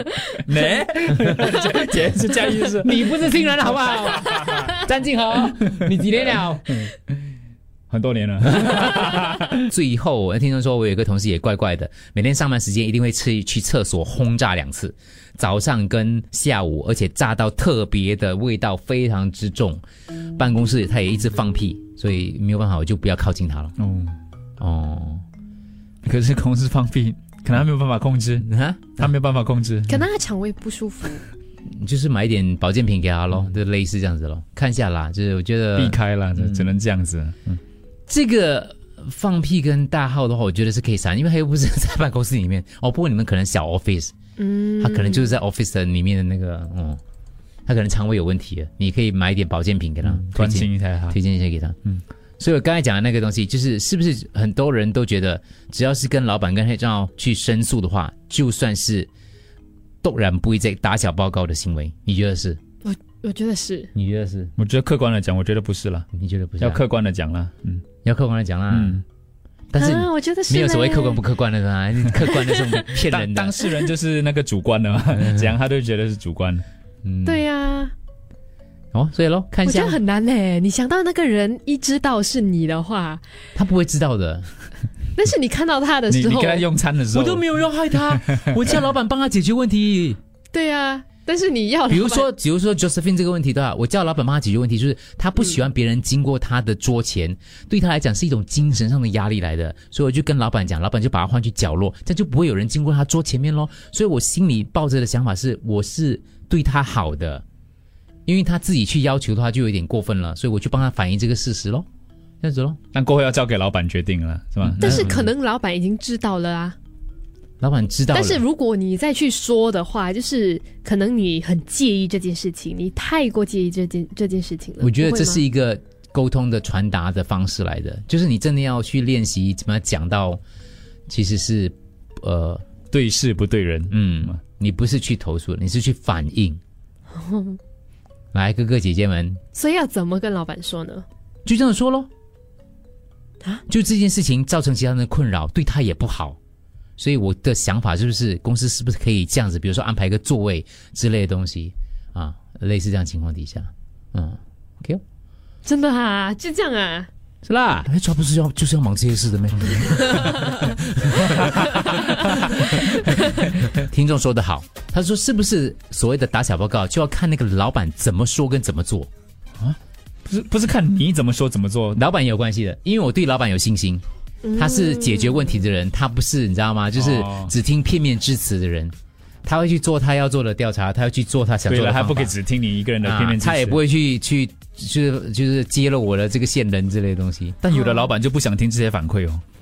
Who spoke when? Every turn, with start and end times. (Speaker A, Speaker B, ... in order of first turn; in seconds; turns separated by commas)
Speaker A: 0.4-4.7, Speaker B: 2.8-6.9, Speaker A: 7.9-9.6, Speaker B: 9.7-19.8, Speaker B: 20.4-23.8, Speaker A: 23.8-24.2, Speaker B: 24.6-25.2, Speaker A: 26.0-30.0, Speaker B: 28.4-29.1, Speaker C: 29.9-31.2, Speaker B: 31.7-36.7, Speaker A: 35.8-37.6, Speaker B: 38.1-44.1, Speaker C: 44.4-45.3, Speaker B: 44.8-47.0, Speaker B: 47.7-51.8, Speaker A: 50.0-51.2, Speaker B: 52.4-59.1, Speaker B: 60.0-62.6, Speaker C: 62.8-63.9, Speaker B: 64.0-64.5, Speaker A: 64.6-66.1, Speaker B: 66.1-66.8, Speaker A: 66.6-67.8, Speaker B: 68.0-69.0, Speaker A: 68.7-69.0, Speaker B: 69.7-73.6, Speaker C: 69.8-71.2, Speaker C: 72.3-72.8, Speaker A: 73.1-76.7, Speaker B: 75.2-75.5, Speaker B: 77.0-77.4, Speaker C: 77.2-77.9, Speaker B: 78.9-80.0, Speaker C: 79.6-83.2, Speaker B: 83.6-84.5, Speaker C: 85.2-86.7, Speaker A: 86.1-88.7, Speaker B: 87.1-90.2, Speaker C: 90.5-92.3, Speaker B: 91.9-107.4, Speaker B: 108.3-111.9, Speaker B: 112.4-112.8, Speaker A: 112.9-115.2, Speaker C: 114.8-116.8, Speaker B: 114.8-115.3, Speaker B: 117.6-118.4, Speaker C: 118.1-125.4, Speaker B: 124.8-130.4, Speaker B: 131.1-132.6, Speaker A: 132.9-134.4, Speaker B: 133.9-136.6, Speaker C: 137.2-137.6, Speaker B: 138.3-139.4, Speaker C: 139.5-141.1, Speaker B: 141.5-142.1, Speaker B: 143.7-146.4, Speaker B: 147.0-155.0, Speaker C: 155.7-157.1, Speaker B: 157.4-169.1, Speaker C: 160.2-160.5, Speaker A: 169.6-172.0, Speaker B: 171.9-174.0, Speaker C: 174.4-175.6, Speaker B: 174.6-178.9, Speaker A: 177.0-177.5, Speaker B: 179.4-182.4, Speaker A: 181.7-183.8, Speaker B: 183.0-187.9, Speaker A: 187.7-189.4